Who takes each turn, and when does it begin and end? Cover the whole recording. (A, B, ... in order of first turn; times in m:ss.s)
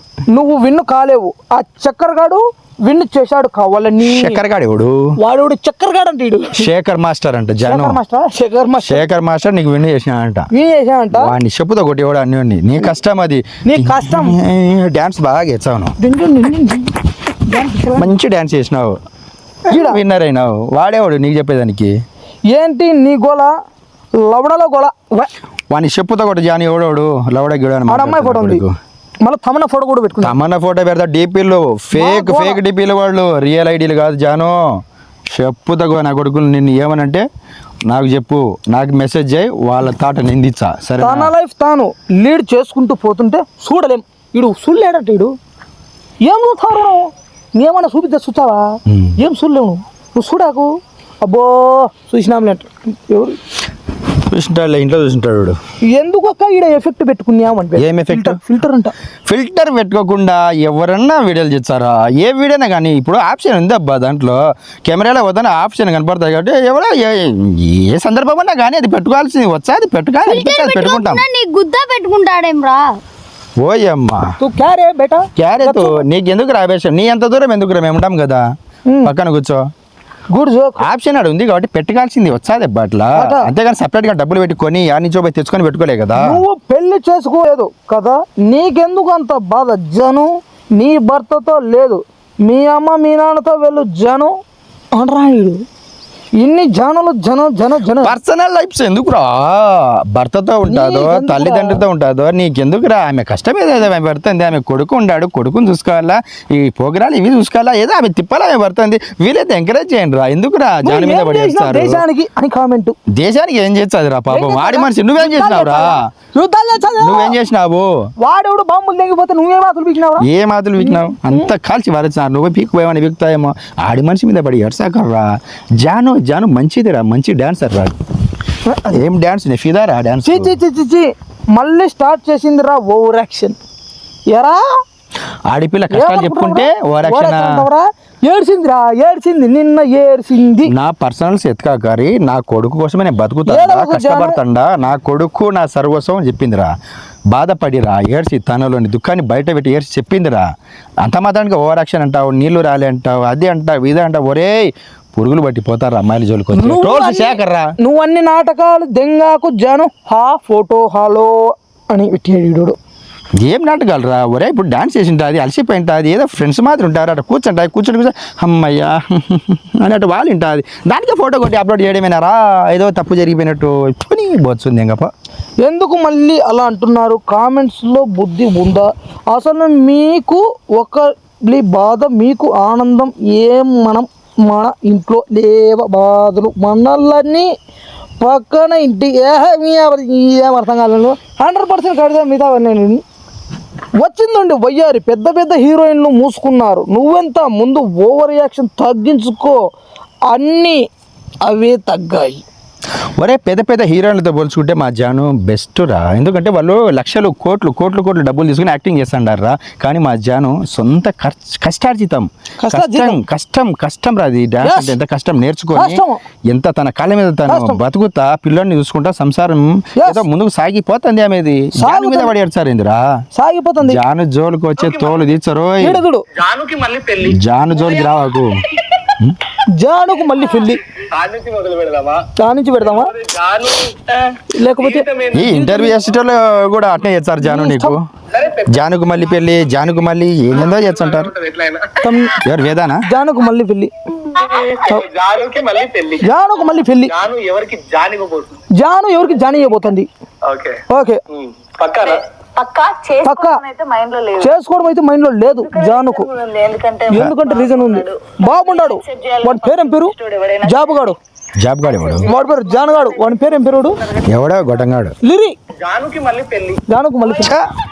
0:00.3-0:04.4 A
0:04.0-0:05.1 B
0:05.2-0:06.7 A
0:06.6-0:08.0 B
0:07.7-0:09.0 A
0:08.8-0:10.5 B
0:10.5-0:11.4 A
0:11.1-0:16.0 B
0:13.7-0:14.4 A
0:16.0-0:18.1 A
0:18.0-0:19.0 B
0:19.7-0:22.0 B
0:19.7-0:20.0 A
0:22.5-0:23.5 A
0:24.2-0:25.3 A
0:25.7-0:28.7 B
0:27.9-0:28.6 A
0:29.2-0:30.4 A
0:30.2-0:34.8 B
0:31.9-0:32.6 A
0:35.3-0:37.3 B
0:37.9-0:41.3 B
0:41.0-0:45.3 A
0:46.2-0:53.4 A
0:48.9-0:49.2 B
0:54.1-0:55.6 B
0:55.9-0:58.9 A
0:57.8-0:58.4 B
0:59.3-1:11.2 B
1:10.2-1:13.0 C
1:13.6-1:14.3 B
1:14.4-1:16.0 A
1:15.4-1:18.5 B
1:19.0-1:19.7 B
1:20.3-1:20.8 A
1:20.8-1:26.4 B
1:23.2-1:23.5 A
1:26.2-1:34.4 A
1:34.9-1:35.6 A
1:36.4-1:38.2 A
1:38.0-1:52.0 B
1:40.6-1:41.8 A
1:50.8-1:53.0 A
1:53.1-1:56.1 B
1:54.3-1:57.4 A
1:57.0-1:58.1 B
1:58.2-2:00.3 A
2:00.2-2:08.0 B
2:00.8-2:01.5 A
2:08.7-2:08.9 A
2:08.9-2:10.6 B
2:10.2-2:13.6 A
2:14.3-2:14.6 A
2:15.5-2:17.7 B
2:15.9-2:20.7 A
2:20.7-2:26.7 B
2:23.5-2:24.4 A
2:27.3-2:30.4 B
2:31.0-2:37.7 B
2:36.5-2:42.8 A
2:43.4-2:55.1 B
2:55.6-3:07.5 A
3:08.2-3:13.0 A
3:14.0-3:19.6 A
3:20.3-3:20.8 A
3:21.4-3:22.4 A
3:23.2-3:43.0 B
3:32.6-3:33.2 A
3:34.6-3:35.0 A
3:35.8-3:36.2 A
3:37.5-3:37.8 A
3:40.0-3:40.2 A
3:41.8-3:42.3 A
3:43.4-3:44.0 A
3:43.8-3:46.0 B
3:44.8-3:45.2 D
3:45.8-3:46.2 A
3:46.4-3:47.4 D
3:47.2-3:48.6 B
3:49.8-3:50.8 A
3:51.0-3:52.3 D
3:52.4-3:53.1 A
3:52.8-3:55.5 D
3:54.5-3:55.9 A
3:55.3-3:58.0 B
3:57.4-3:58.0 A
3:58.3-3:58.8 D
3:58.7-4:01.3 B
4:00.5-4:02.2 D
4:02.0-4:02.4 A
4:02.4-4:03.0 B
4:03.0-4:03.9 A
4:04.4-4:06.3 D
4:06.2-4:07.1 A
4:06.9-4:08.6 D
4:08.7-4:10.1 A
4:10.4-4:12.2 D
4:10.9-4:11.2 A
4:12.0-4:14.5 E
4:13.2-4:13.6 A
4:14.4-4:16.3 A
4:15.5-4:21.1 E
4:17.1-4:21.2 A
4:21.6-4:22.3 B
4:21.9-4:23.2 E
4:22.2-4:24.0 A
4:24.3-4:25.2 B
4:25.2-4:25.6 A
4:25.8-4:26.8 D
4:26.9-4:27.6 A
4:27.4-4:27.7 B